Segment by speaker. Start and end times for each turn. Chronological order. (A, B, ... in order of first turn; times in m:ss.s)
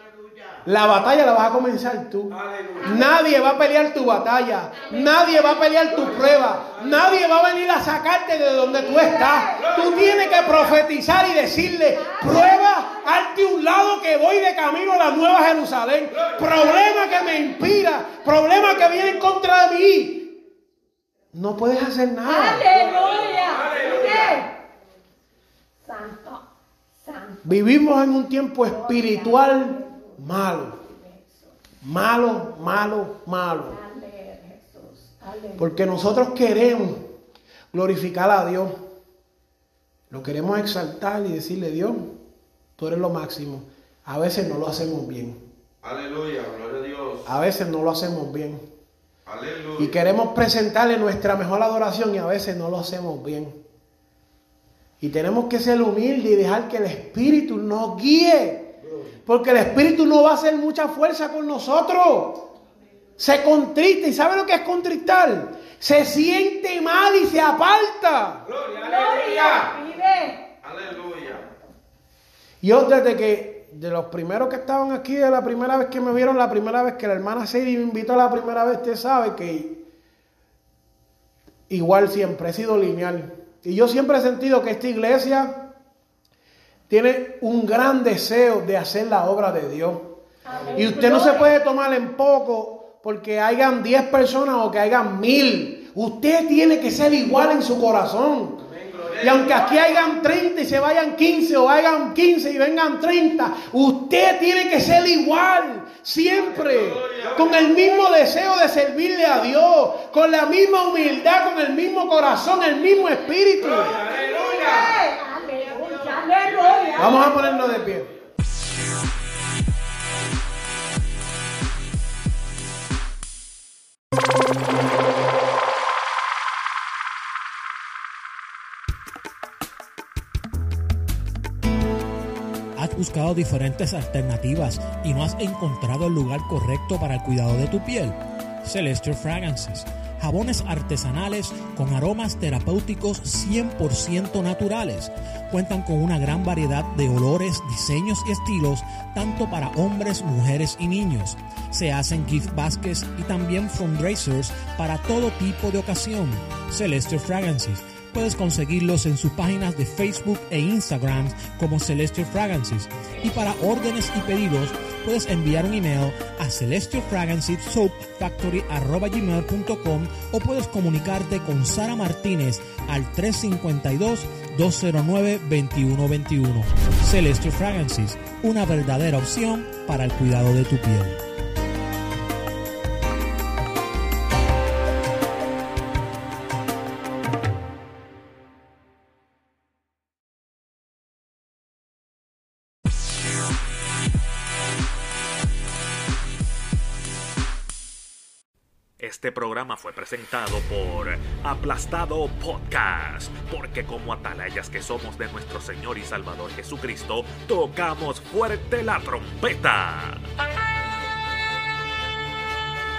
0:00.6-0:20.4 A
0:02.3-0:03.0 B
0:04.9-0:05.3 C
0:06.7-0:07.1 B
0:09.0-0:09.6 C
0:09.6-0:10.5 B
0:12.0-0:13.2 C
0:21.3-0:22.7 A
0:22.2-0:24.6 C
0:23.1-0:24.4 B
0:25.8-0:26.4 C
0:27.0-0:27.6 C
0:27.4-0:30.8 A
0:28.7-0:30.2 C
0:30.8-0:31.5 C
0:31.8-0:33.8 A
0:33.7-0:35.7 C
0:35.6-0:37.0 A
0:37.7-0:38.8 A
0:40.1-0:42.1 A
0:42.8-0:45.4 A
0:45.8-0:47.3 D
0:47.3-0:48.6 A
0:49.3-0:50.0 D
0:49.8-0:53.6 A
0:55.0-0:58.7 A
0:58.8-0:59.1 B
0:59.3-1:02.5 A
1:03.2-1:08.4 A
1:08.5-1:09.7 B
1:08.8-1:10.5 C
1:10.6-1:11.5 D
1:12.6-1:19.8 A
1:21.7-1:25.6 A
1:26.9-1:30.1 A
1:30.4-1:31.5 C
1:30.7-1:38.6 A
1:38.6-1:39.5 B
1:39.1-1:39.9 D
1:39.2-1:54.0 A
1:46.6-1:47.7 D
1:47.2-1:47.6 B
1:53.8-1:57.7 C
1:53.9-1:54.6 B
1:57.0-1:58.1 A
2:12.8-3:01.2 E
3:19.0-3:30.3 F